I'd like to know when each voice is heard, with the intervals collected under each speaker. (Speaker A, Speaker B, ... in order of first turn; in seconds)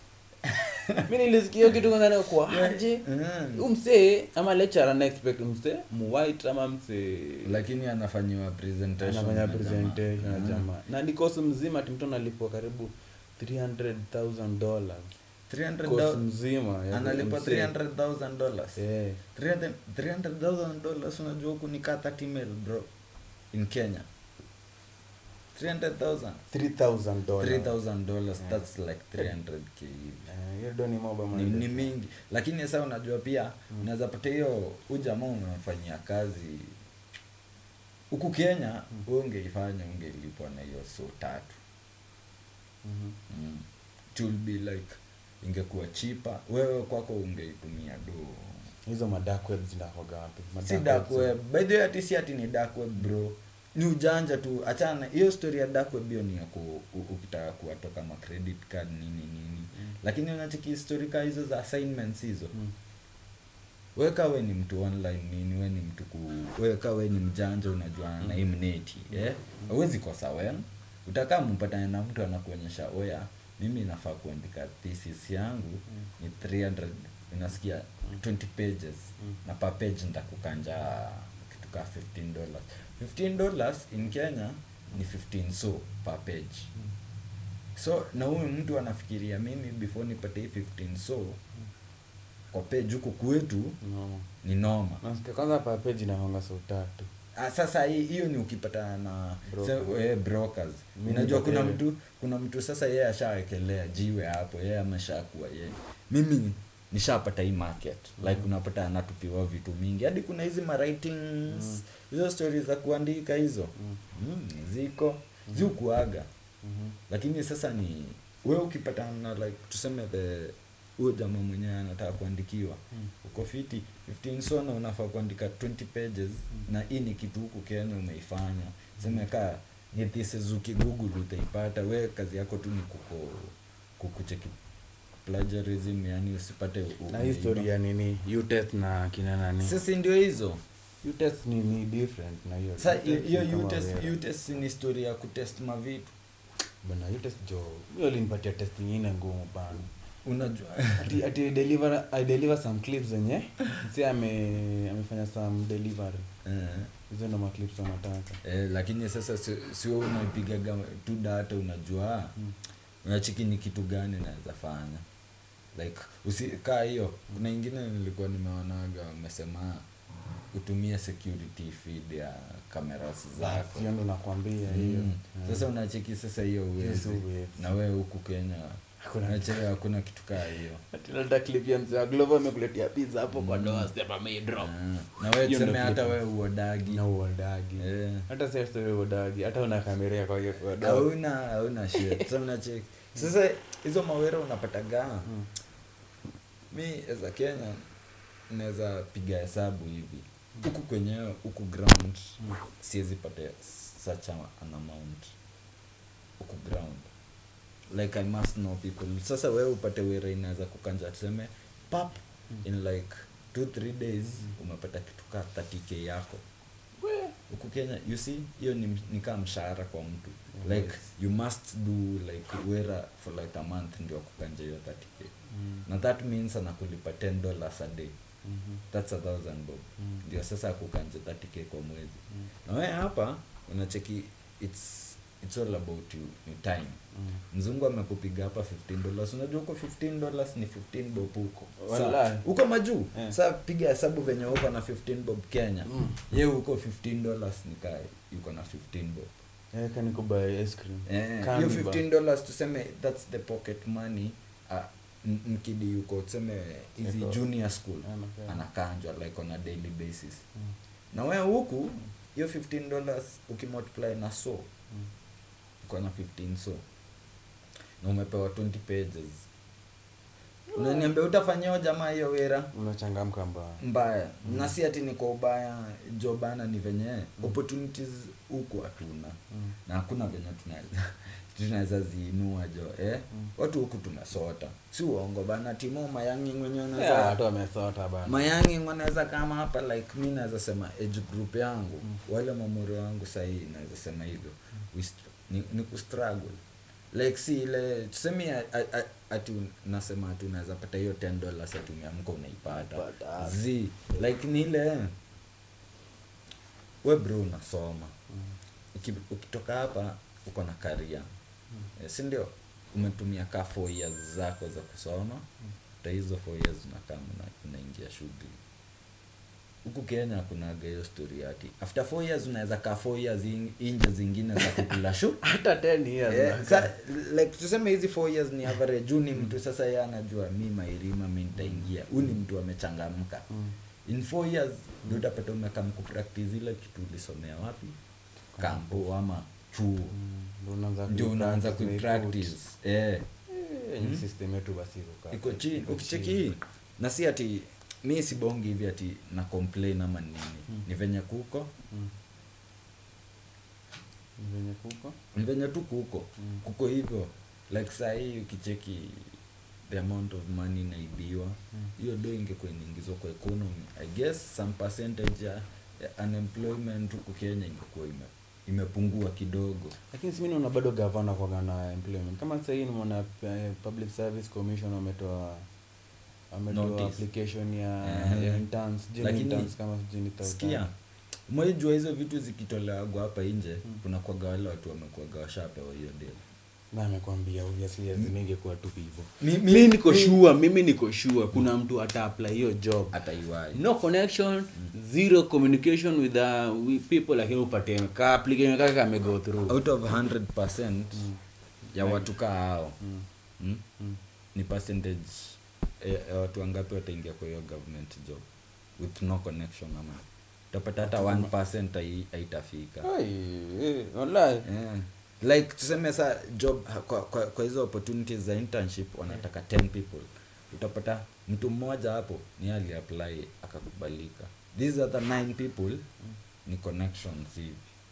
Speaker A: 0.4-1.1, 2.5-3.7, 7.4-10.6, 15.5-16.2, 16.9-18.8, 19.3-22.9, 23.5-24.1, 25.5-26.4, 27.4-30.2, 31.3-36.7, 38.1-41.6, 43.3-48.6, 50.6-62.5, 64.0-86.7, 87.8-91.4, 92.5-93.8, 94.4-95.0, 97.4-116.3, 117.1-134.6, 135.2-137.7, 139.6-140.6, 142.8-146.1, 150.2-151.1, 156.4-156.9, 158.4-162.3, 163.0-165.0, 165.7-169.8, 170.5-173.9, 174.7-180.8, 183.3-183.9, 184.6-187.0, 187.8-188.2, 190.8-195.3, 196.7-197.8, 198.5-205.3, 206.4-207.1, 207.9-216.4, 217.5-225.3, 225.8-228.1, 228.9-237.0, 237.5-249.4, 251.1-260.4, 261.1-264.7, 265.8-266.8, 268.0-269.4, 270.7-272.7, 273.8-287.4, 288.2-296.6, 297.1-305.1, 307.0-308.1, 308.9-311.3, 312.0-315.4, 316.0-318.6, 319.8-325.4, 326.3-333.4, 334.1-337.9, 338.6-340.1, 341.1-343.2, 345.3-351.7, 355.3-359.3, 359.9-369.9, 376.7-377.2, 378.0-378.6, 379.2-379.7, 380.4-380.9, 381.5-386.4, 389.4-390.4, 393.1-393.8, 399.7-401.3, 401.9-403.0, 403.6-403.8, 404.5-408.4, 409.0-413.1, 414.6-426.0, 426.6-427.8
Speaker B: 1.1-7.6, 9.0-15.1, 15.8-17.7, 18.8-19.2, 26.5-27.8, 28.4-28.6, 30.3-31.9, 42.8-43.2, 48.9-51.3, 93.8-94.3, 95.0-97.1, 99.5-99.9, 101.0-101.8, 108.2-108.5, 116.6-117.0, 137.1-139.8, 141.0-144.2, 146.8-149.9, 151.0-156.3, 157.1-158.4, 173.4-175.7, 176.8-177.6, 179.0-179.6, 180.9-184.7, 185.4-186.2, 186.9-191.1, 191.9-192.2, 217.0-217.3, 220.5-221.0, 228.4-228.8, 241.8-242.4, 245.9-246.2, 249.7-252.0, 257.0-257.4, 258.0-258.6, 270.7-271.1, 272.7-273.8, 274.4-274.7, 286.9-288.5, 302.7-303.6, 324.6-324.9, 325.4-326.9, 331.6-331.9, 338.5-339.0, 340.1-342.5, 343.5-346.4, 354.4-355.2, 370.1-375.7, 376.5-380.8, 386.9-393.1, 393.7-399.8, 401.9-402.3, 411.0-411.5, 413.0-414.6